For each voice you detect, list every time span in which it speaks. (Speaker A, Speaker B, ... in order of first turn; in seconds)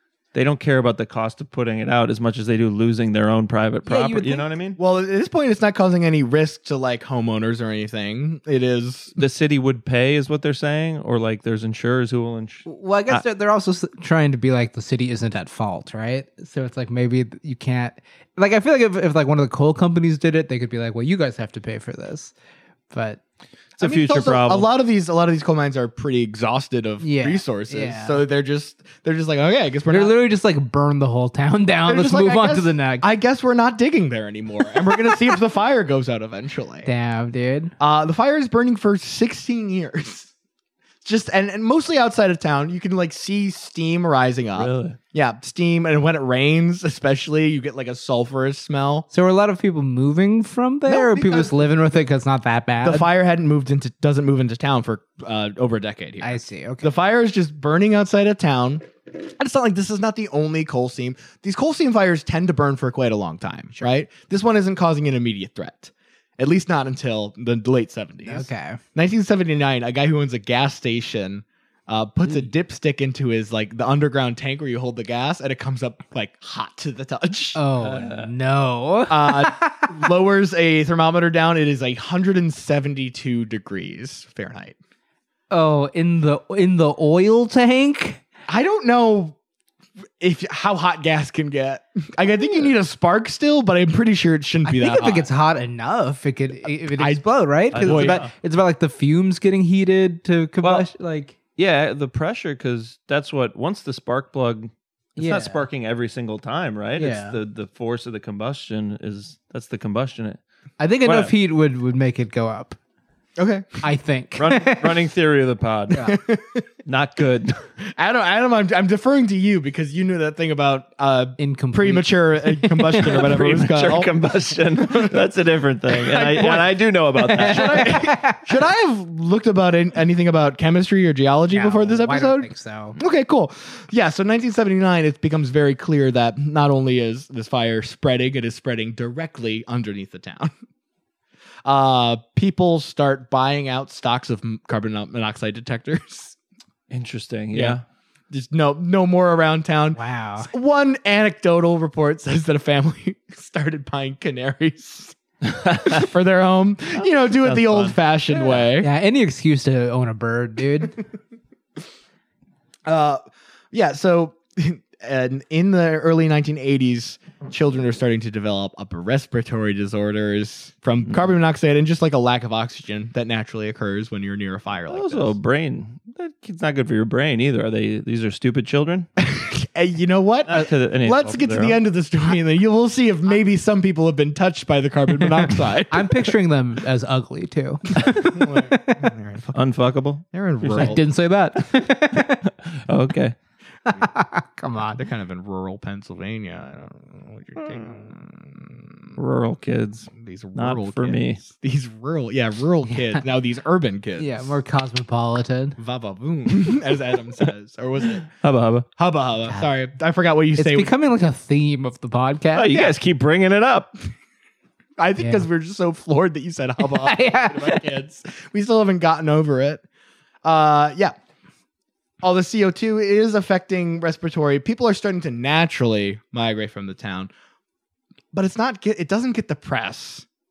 Speaker A: 0.3-4.8, 9.2-13.2, 23.8-24.7, 44.5-45.0, 77.8-78.3, 97.7-98.3, 101.6-110.4, 111.0-111.3, 114.3-116.1, 116.8-117.6, 123.0-128.0, 146.9-147.8, 155.5-155.9, 157.3-158.6, 174.9-179.1, 180.5-181.8, 189.5-191.0, 192.7-193.3, 199.2-201.4, 208.3-208.9, 212.5-213.9
Speaker B: 3.9-4.5, 12.7-22.3, 22.9-23.2, 27.0-28.2, 29.9-33.0, 36.8-37.7, 49.1-53.1, 56.2-56.9, 68.2-68.8, 77.5-80.0, 85.5-88.2, 94.6-101.3, 105.2-105.6, 107.0-107.4, 110.8-112.8, 113.8-115.0, 121.4-123.2, 127.2-128.4, 131.5-133.0, 149.9-150.5, 158.8-161.0, 185.9-189.1, 190.7-192.4, 193.9-195.0, 202.9-203.2, 204.2-205.8, 210.6-212.9, 215.2-215.4, 216.8-217.9
Speaker C: 4.8-9.2, 23.8-30.1, 31.9-36.9, 37.8-40.3, 41.0-49.1, 50.9-51.6, 52.8-77.6, 79.1-84.8, 88.5-89.3, 90.2-95.3, 97.0-98.2, 113.4-113.7, 116.1-116.6, 117.9-124.1, 124.8-125.2, 125.9-126.8, 127.3-140.5, 141.6-146.3, 147.5-147.8, 148.3-158.9, 162.8-163.2, 163.7-175.3, 179.2-186.3, 187.9-189.6, 190.3-191.0, 194.9-199.1, 200.1-204.5, 205.8-208.3, 209.0-210.9, 215.0-219.8, 220.4-221.1, 222.2-227.3, 228.3-230.2